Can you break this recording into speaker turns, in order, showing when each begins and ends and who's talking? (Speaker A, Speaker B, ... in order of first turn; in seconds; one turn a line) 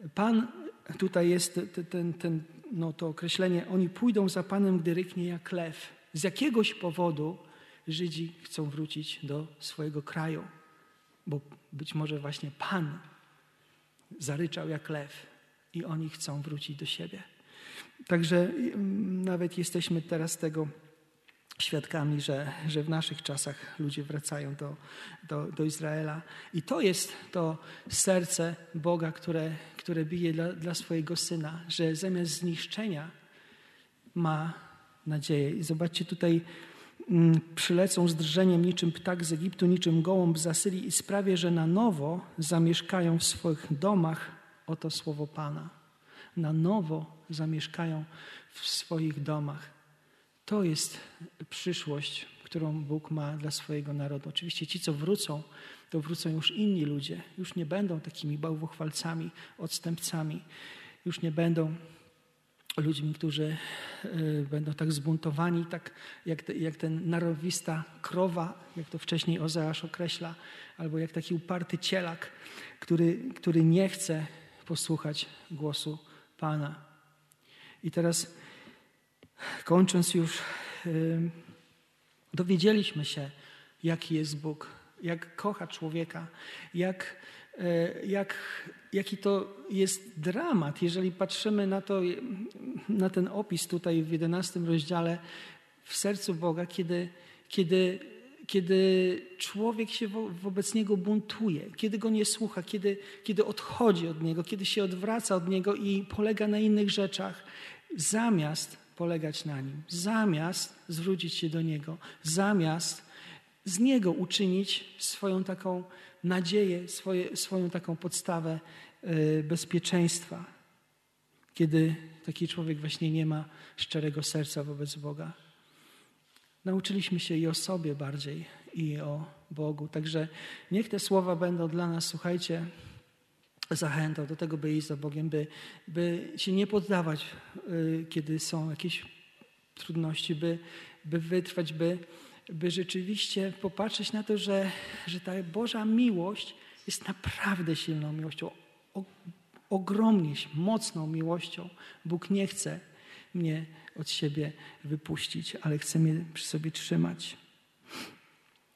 Speaker A: 0.1-10.5
Speaker A: 11.2-13.0
Speaker A: 14.2-17.3
Speaker A: 18.1-20.7
Speaker A: 21.6-33.1
Speaker A: 34.1-36.5
Speaker A: 37.1-45.7
Speaker A: 46.4-49.7
Speaker A: 50.5-60.4
Speaker A: 61.0-61.8
Speaker A: 62.8-76.8
Speaker A: 77.8-78.3
Speaker A: 79.6-81.4
Speaker A: 82.3-95.2
Speaker A: 95.8-113.1
Speaker A: 113.6-120.5
Speaker A: 121.5-125.3
Speaker A: 126.6-132.7
Speaker A: 133.7-139.1
Speaker A: 139.8-149.1
Speaker A: 149.7-157.4